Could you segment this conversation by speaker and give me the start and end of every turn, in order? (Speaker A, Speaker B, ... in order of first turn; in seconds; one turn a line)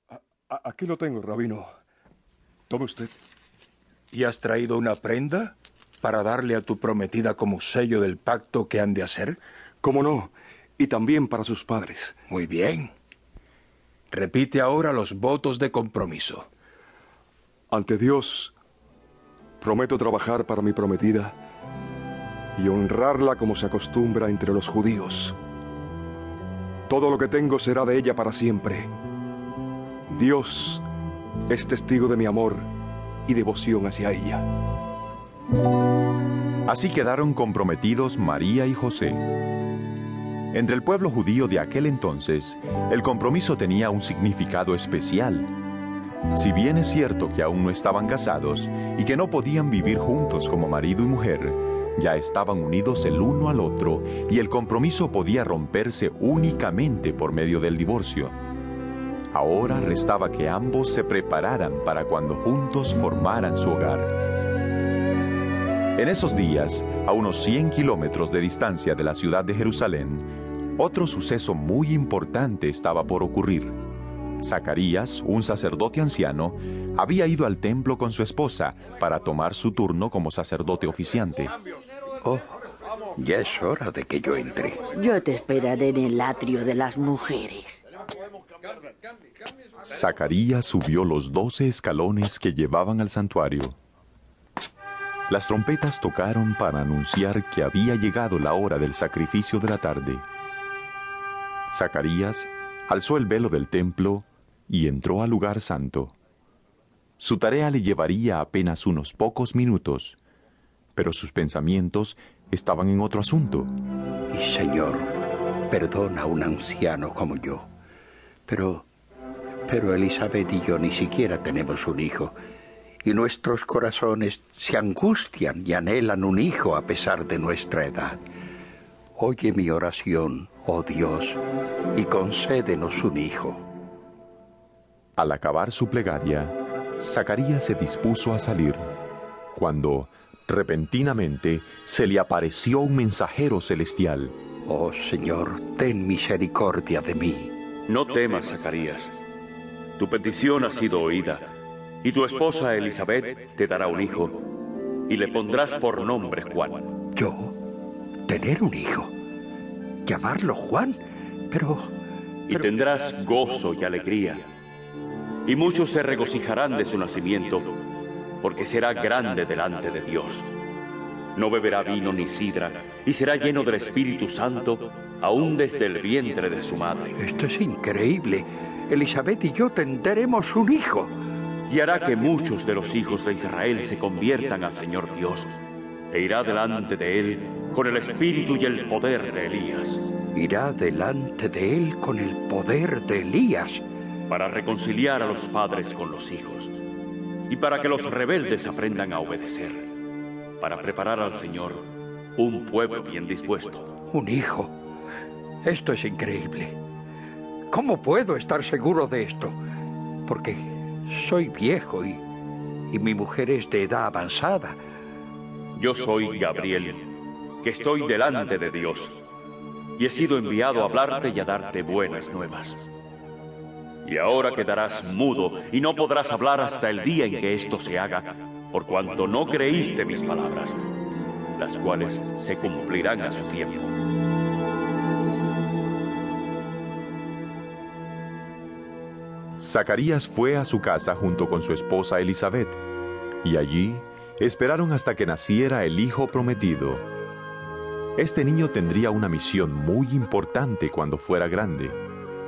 Speaker A: 0.1-1.7
Speaker A: 2.7-3.1
Speaker B: 4.1-9.4
Speaker A: 9.8-12.2
Speaker B: 12.3-12.9
Speaker B: 14.1-16.5
Speaker A: 17.7-18.6
Speaker A: 19.6-21.4
Speaker A: 22.6-25.4
Speaker A: 26.9-28.9
Speaker A: 30.1-30.8
Speaker A: 31.5-32.7
Speaker A: 33.3-34.5
Speaker C: 36.7-39.2
Speaker C: 40.5-45.5
Speaker C: 46.3-58.3
Speaker C: 59.3-64.2
Speaker C: 66.0-73.8
Speaker C: 74.4-81.5
Speaker D: 83.2-84.9
Speaker E: 84.9-87.8
Speaker C: 89.8-93.8
Speaker C: 95.3-100.2
Speaker C: 101.7-106.2
Speaker C: 107.2-110.2
Speaker C: 111.0-113.7
Speaker D: 114.3-115.1
Speaker D: 115.7-117.7
Speaker D: 118.5-118.9
Speaker D: 119.7-122.3
Speaker D: 123.0-128.2
Speaker D: 129.2-131.4
Speaker D: 131.9-133.6
Speaker C: 135.2-138.9
Speaker C: 139.5-144.3
Speaker D: 144.7-147.5
Speaker F: 147.9-149.2
Speaker F: 150.0-151.5
Speaker F: 152.0-154.5
Speaker F: 155.1-156.9
Speaker D: 157.2-157.6
Speaker D: 158.3-159.1
Speaker D: 160.1-161.0
Speaker D: 161.5-161.9
Speaker F: 162.5-164.4
Speaker F: 165.5-167.8
Speaker F: 168.4-170.5
Speaker F: 171.3-177.2
Speaker D: 177.2-181.1
Speaker F: 181.7-185.5
Speaker F: 186.1-190.1
Speaker D: 190.3-193.8
Speaker F: 194.3-196.7
Speaker F: 197.5-199.9
Speaker F: 200.6-203.9
Speaker D: 204.1-204.7
Speaker D: 205.6-206.8
Speaker D: 207.7-209.6
Speaker D: 210.3-212.2
Speaker D: 212.9-214.8
Speaker F: 215.8-219.2
Speaker F: 220.0-222.9
Speaker F: 224.1-230.9
Speaker F: 231.6-233.9
Speaker C: 239.6-242.8
Speaker C: 243.4-247.1
Speaker C: 248.2-252.0